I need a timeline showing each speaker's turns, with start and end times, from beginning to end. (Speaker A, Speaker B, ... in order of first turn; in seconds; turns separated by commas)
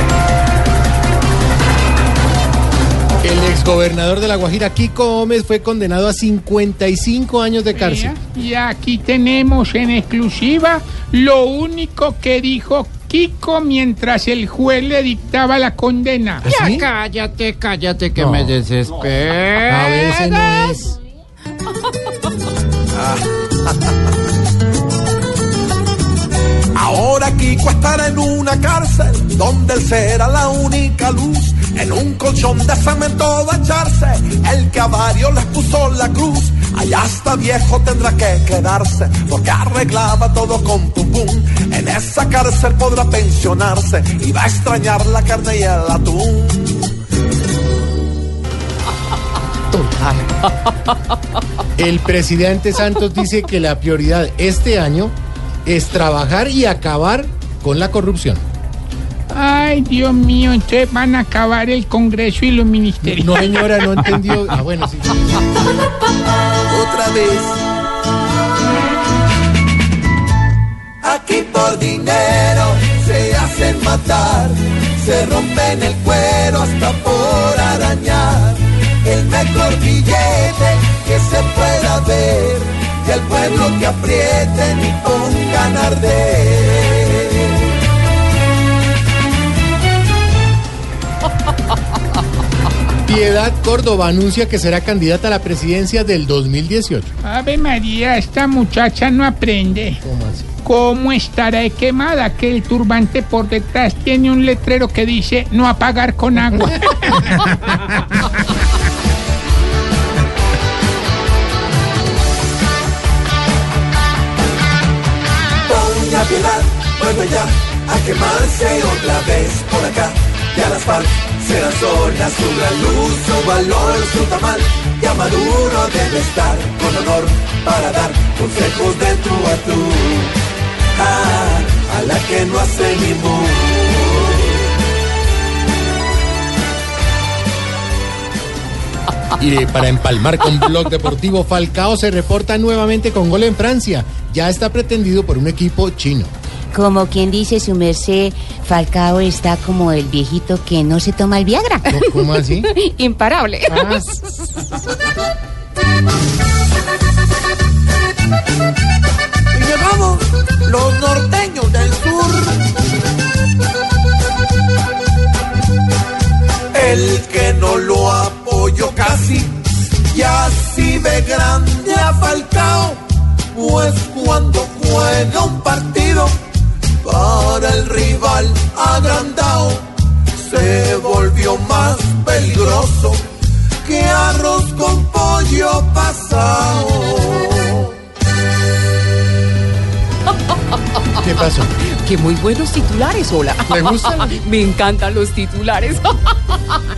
Speaker A: 3.2-8.1, Speaker B: 7.7-16.4, Speaker A: 16.4-16.9, Speaker C: 16.5-20.3, Speaker A: 18.2-18.6, Speaker A: 19.7-21.0, Speaker D: 22.9-23.2, Speaker D: 26.7-46.9, Speaker A: 51.8-55.1, Speaker A: 55.6-58.5, Speaker B: 59.3-63.9, Speaker A: 63.0-65.2, Speaker D: 66.7-67.7, Speaker D: 71.0-87.8, Speaker A: 93.0-97.1, Speaker B: 97.2-100.0, Speaker A: 100.0-100.5, Speaker B: 100.6-107.5, Speaker D: 115.7-130.4, Speaker D: 130.9-134.6, Speaker A: 139.4-146.3, Speaker E: 146.7-151.9, Speaker A: 151.9-152.7, Speaker F: 152.8-153.9, Speaker A: 153.7-154.1, Speaker D: 159.5-162.7, Speaker D: 166.7-173.0, Speaker D: 173.5-176.4, Speaker D: 177.0-183.3, Speaker D: 183.8-187.9, Speaker A: 191.2-191.7, Speaker F: 192.0-196.6, Speaker A: 193.7-194.3